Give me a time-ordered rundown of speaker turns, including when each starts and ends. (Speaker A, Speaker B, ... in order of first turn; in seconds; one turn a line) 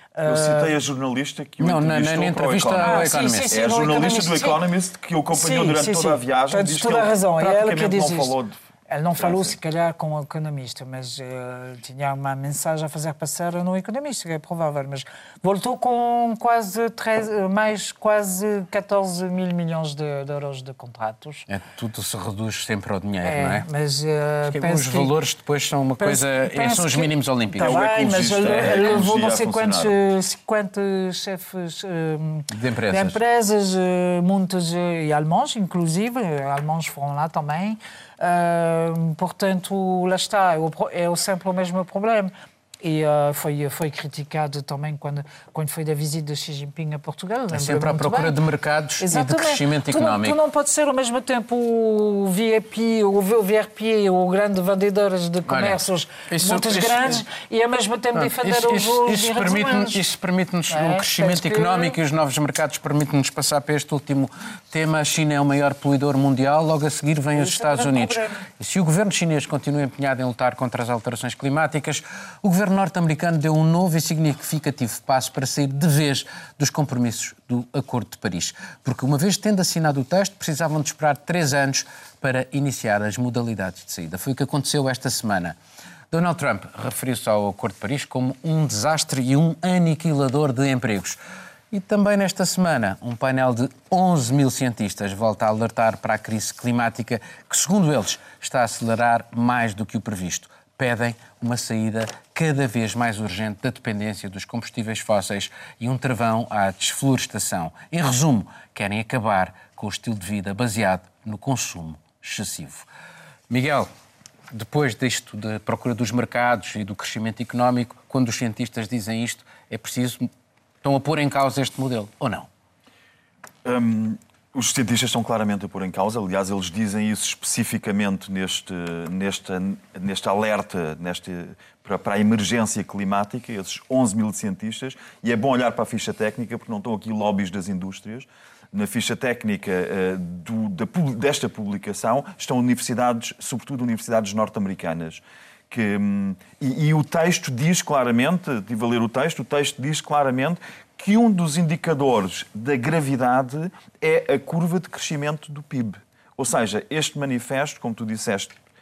Speaker A: 0.1-0.7
Speaker B: 0.2-8.6
Speaker C: 1.6-3.6
Speaker A: 2.8-4.6
Speaker A: 5.3-8.3
Speaker A: 8.9-21.5
Speaker B: 9.2-9.5
Speaker C: 21.5-23.6
Speaker A: 23.2-25.1
Speaker C: 24.5-27.8
Speaker A: 26.0-48.4
Speaker B: 27.5-29.9
Speaker C: 28.4-28.8
Speaker C: 32.5-33.2
Speaker C: 47.5-50.4
Speaker A: 49.0-60.0
Speaker C: 55.5-57.2
Speaker C: 58.1-85.6
Speaker A: 60.7-62.0
Speaker A: 67.3-68.5
Speaker C: 86.1-91.2
Speaker C: 91.7-112.9
Speaker C: 113.5-113.9
Speaker C: 114.5-120.3
Speaker C: 120.8-122.5
Speaker B: 123.6-158.6